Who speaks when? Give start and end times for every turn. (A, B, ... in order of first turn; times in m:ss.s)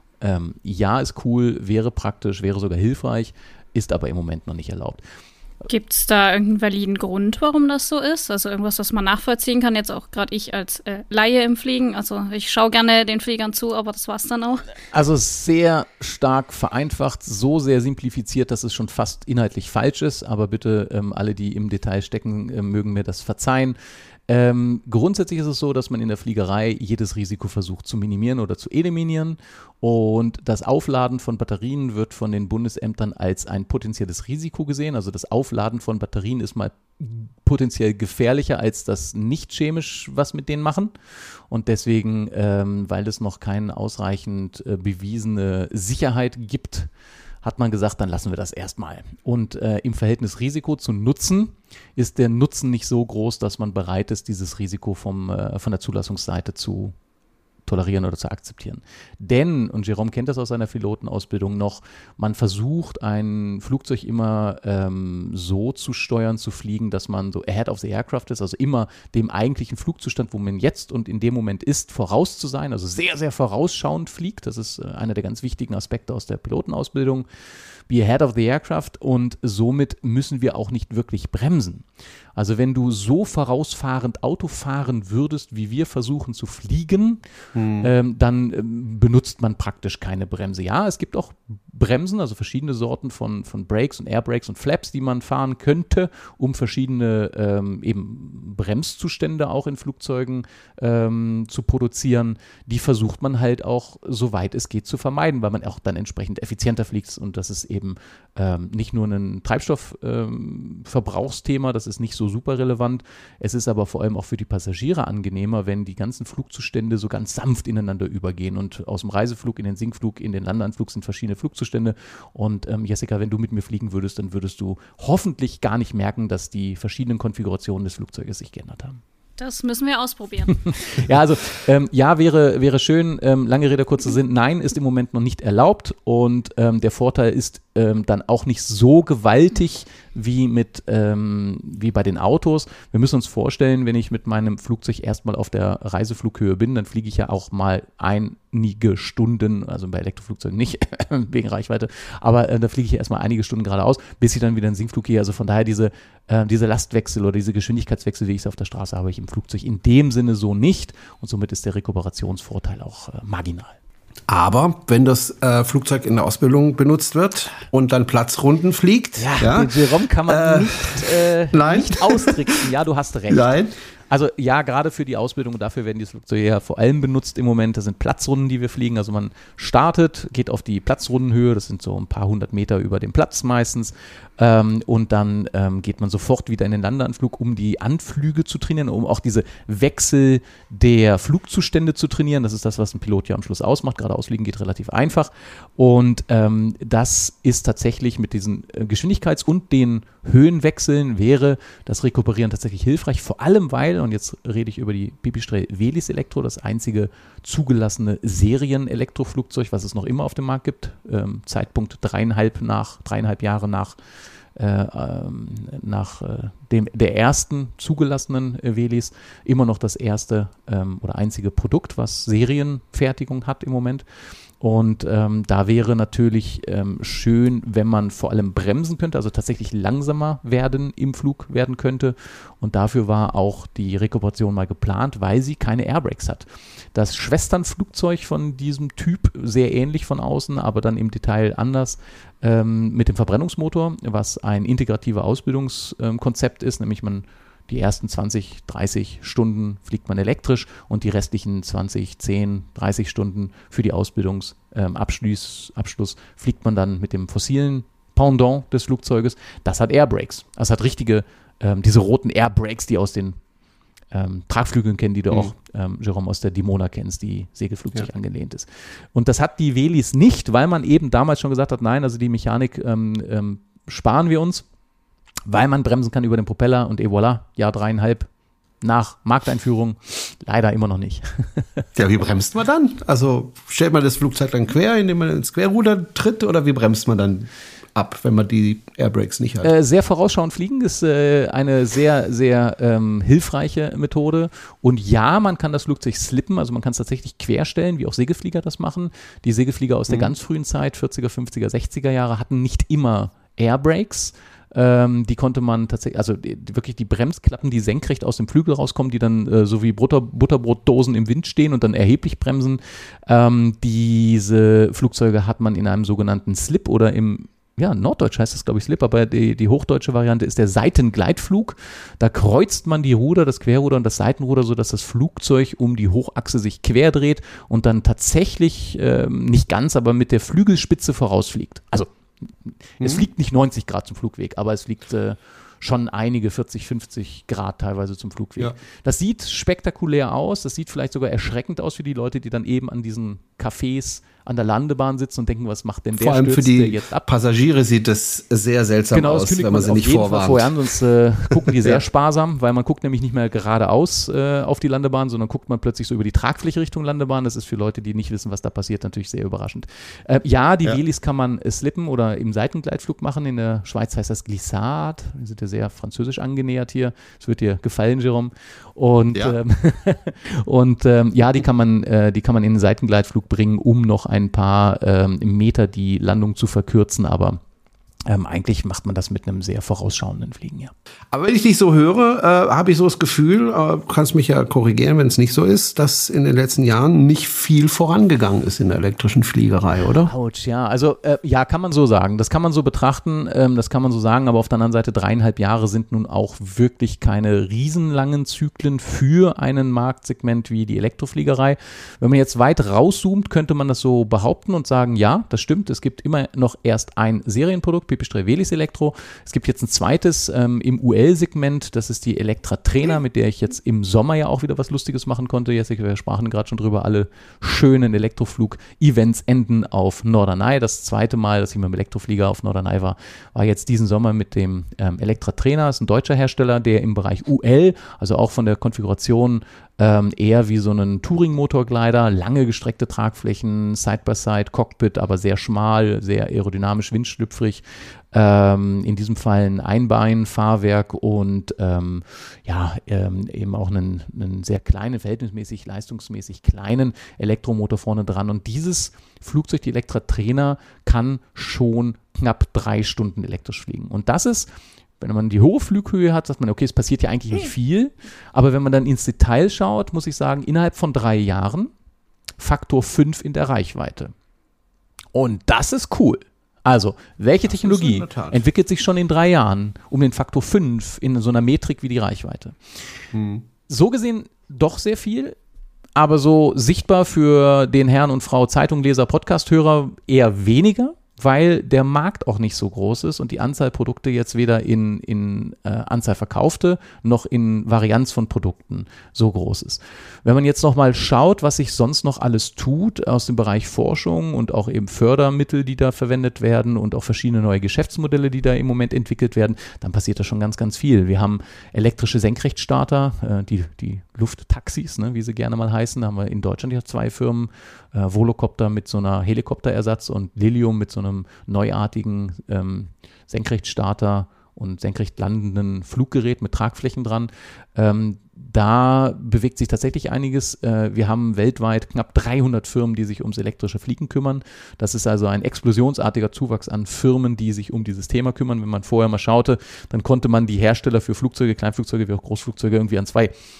0:00.2-0:05.0 A
0:05.7-0:14.6 B
0:14.9-0:23.8 A
0:24.3-0:40.9 A
0:41.5-0:46.9 A
0:47.4-0:56.9 A
0:57.7-1:17.2 A
1:17.9-1:21.8 A
1:22.4-1:27.2 A
1:27.6-1:27.9 C
1:27.8-2:09.0 A
2:09.4-2:10.7 B
2:10.7-2:43.8 A
2:44.3-2:52.5 C
2:49.2-2:53.5 A
2:53.3-2:53.7 C
2:54.1-3:34.0 A
3:34.6-3:44.0 A
3:44.6-4:23.4 A
4:24.1-4:34.7 A
4:35.5-4:38.3 A
4:38.8-4:41.8 A
4:42.0-4:49.7 C
4:49.6-5:32.1 A
5:32.7-5:47.2 A
5:33.0-5:33.3 C
5:46.2-5:50.7 C
5:49.1-6:17.6 A
5:51.5-5:52.0 C
6:18.3-6:20.9 A
6:21.3-6:30.3 C
6:30.2-7:41.9 A
7:42.6-7:44.3 A
7:45.3-7:52.8 A
7:47.6-7:48.6 C
7:53.3-7:53.6 C
7:53.9-7:55.6 A
7:56.2-8:53.5 A